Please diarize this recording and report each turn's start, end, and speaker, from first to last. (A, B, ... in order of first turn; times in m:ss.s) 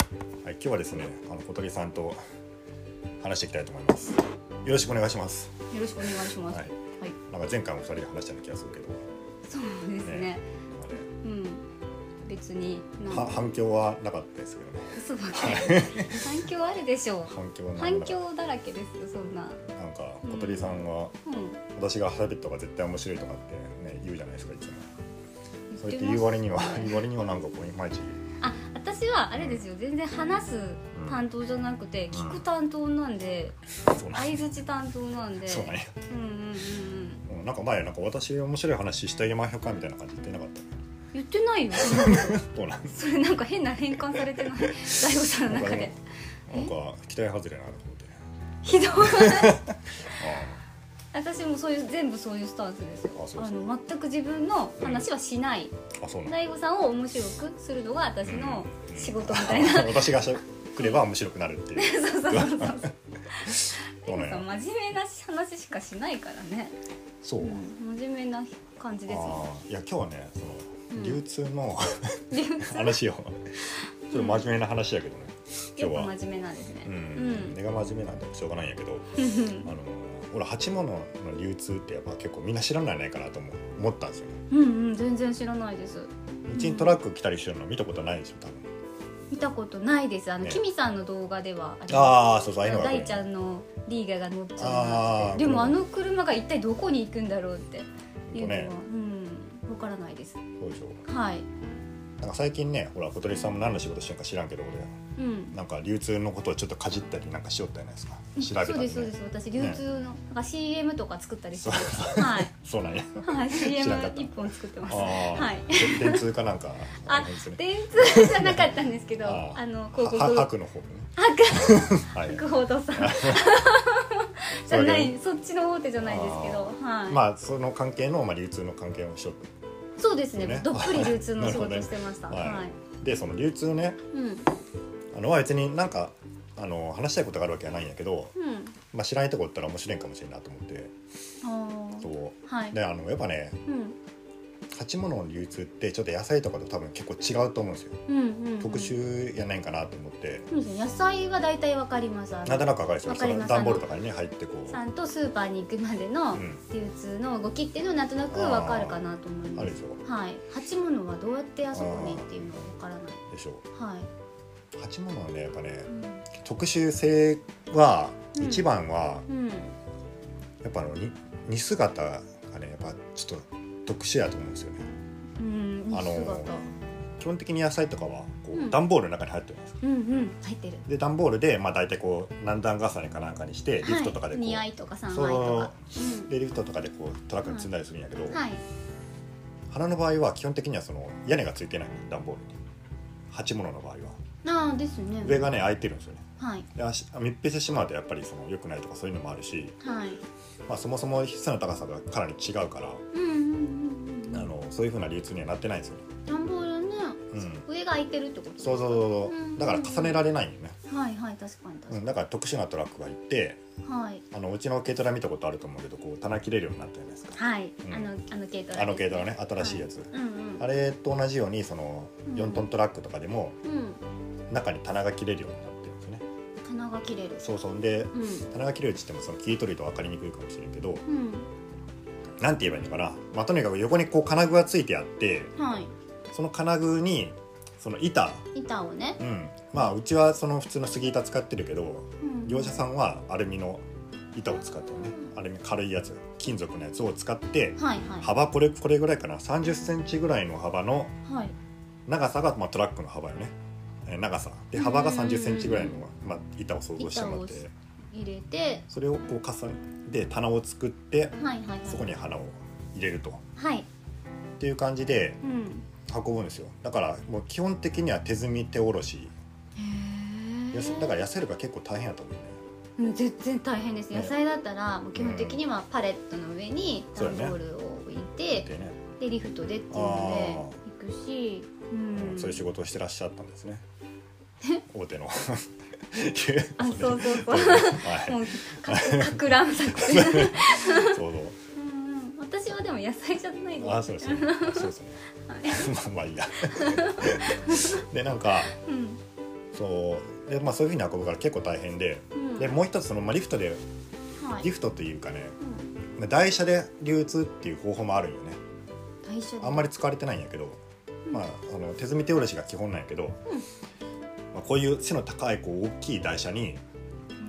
0:00.4-0:02.2 A
0:03.2-0:05.6 A
0:05.7-0:07.2 B
0:06.2-0:09.0 A
0:09.5-0:10.4 B
0:10.0-0:11.1 A
0:11.2-0:11.6 B
0:12.2-0:13.4 B
0:13.1-0:16.4 A
0:14.9-0:19.6 B
0:17.3-0:18.2 A
0:19.7-0:21.2 A
0:20.2-0:21.6 B
0:21.7-0:24.9 A
0:25.7-0:27.0 B
0:25.8-0:28.2 A
0:28.4-0:33.6 B
0:29.3-0:29.6 A
0:31.0-0:31.2 A
0:32.1-0:32.4 A
0:33.9-0:34.4 A
0:34.1-0:37.2 B
0:35.4-0:35.9 A
0:37.3-0:40.8 A
0:41.1-0:46.0 B
0:41.7-0:43.0 A
0:44.1-0:45.9 A
0:46.5-0:48.2 A
0:48.6-0:49.7 B
0:49.0-0:50.6 A
0:51.1-1:01.0 B
0:53.2-0:53.6 A
0:54.8-0:55.1 A
0:56.0-0:56.3 A
0:58.2-1:02.9 A
1:01.8-1:06.8 B
1:03.4-1:04.4 A
1:07.2-1:07.6 A
1:07.4-1:09.4 B
1:09.1-1:16.1 A
1:10.9-1:11.2 B
1:12.3-1:13.0 B
1:13.7-1:14.4 B
1:15.8-1:17.6 B
1:16.8-1:24.4 A
1:19.2-1:19.7 B
1:24.5-1:27.0 B
1:26.5-1:28.7 A
1:29.3-1:40.4 B
1:31.9-1:33.2 A
1:34.6-1:35.8 A
1:38.3-1:38.8 A
1:40.6-1:41.0 A
1:41.1-1:41.4 B
1:42.2-1:45.0 A
1:45.2-1:45.6 B
1:45.5-1:49.8 A
1:48.4-1:52.5 B
1:51.6-2:03.6 A
1:53.2-1:56.2 B
1:57.1-2:00.5 B
2:01.2-2:07.2 B
2:04.7-2:05.1 A
2:06.0-2:09.5 A
2:10.0-2:12.8 B
2:10.3-2:14.0 A
2:14.1-2:14.5 B
2:15.1-2:18.3 A
2:18.3-2:18.8 B
2:18.9-2:20.9 A
2:21.4-2:22.8 B
2:22.0-2:23.6 A
2:23.7-2:24.0 B
2:24.7-2:28.0 A
2:28.1-2:28.9 B
2:28.6-2:30.5 A
2:30.5-2:33.8 B
2:32.4-2:34.8 A
2:34.7-2:44.1 B
2:36.3-2:36.6 A
2:38.3-2:39.0 A
2:39.6-2:40.0 A
2:41.7-2:42.6 A
2:43.3-2:43.6 A
2:44.7-2:49.3 A
2:45.9-2:46.2 B
2:48.3-2:48.7 B
2:49.3-2:49.7 B
2:50.6-2:54.9 A
2:55.4-2:56.6 B
2:55.9-2:56.5 A
2:57.2-2:59.8 A
2:58.5-2:58.8 B
2:59.8-3:00.8 B
3:00.9-3:08.4 A
3:03.8-3:06.3 B
3:08.3-3:08.6 B
3:09.7-3:12.5 A
3:13.3-3:14.2 A
3:14.4-3:15.4 B
3:15.2-3:19.8 A
3:16.4-3:16.7 B
3:19.8-3:20.2 B
3:20.7-3:23.0 A
3:23.1-3:24.5 B
3:24.3-3:26.0 A
3:26.3-3:30.2 B
3:27.3-3:27.6 A
3:28.6-3:30.8 A
3:30.9-3:32.0 B
3:31.9-3:33.6 A
3:33.8-3:34.2 B
3:34.3-3:38.1 A
3:37.4-3:40.7 B
3:38.7-3:43.6 A
3:42.2-3:42.7 B
3:43.6-3:44.0 B
3:44.5-3:46.2 A
3:46.6-3:47.5 B
3:47.4-3:51.0 A
3:48.1-3:48.5 B
3:51.0-3:51.5 B
3:52.4-3:55.5 A
3:55.6-3:55.9 B
3:56.3-3:58.5 A
3:58.5-3:59.2 B
3:59.2-4:11.2 A
4:02.2-4:02.8 B
4:07.8-4:08.3 B
4:11.2-4:11.5 B
4:12.0-4:17.7 A
4:14.7-4:16.0 B
4:17.0-4:18.8 B
4:18.9-4:23.4 A
4:21.4-4:22.1 B
4:23.6-4:23.9 B
4:24.6-4:25.4 A
4:25.4-4:25.9 B
4:26.1-4:29.4 A
4:29.8-4:31.2 B
4:30.7-4:32.6 A
4:33.0-4:38.7 B
4:35.2-4:35.6 A
4:37.2-4:37.6 A
4:38.5-4:39.0 A
4:39.2-4:42.6 B
4:39.9-4:40.8 A
4:42.1-4:43.8 A
4:44.9-4:51.6 A
4:46.8-4:51.2 B
4:51.7-4:54.9 B
4:53.8-4:58.7 A
4:55.4-4:55.9 B
4:56.6-4:58.0 B
4:58.8-4:59.2 B
4:59.7-5:03.8 A
5:02.3-5:02.7 B
5:04.4-5:04.7 B
5:04.6-5:05.6 A
5:05.6-5:05.9 B
5:06.2-5:08.6 A
5:09.2-5:09.9 B
5:09.6-5:13.4 A
5:14.5-5:16.8 A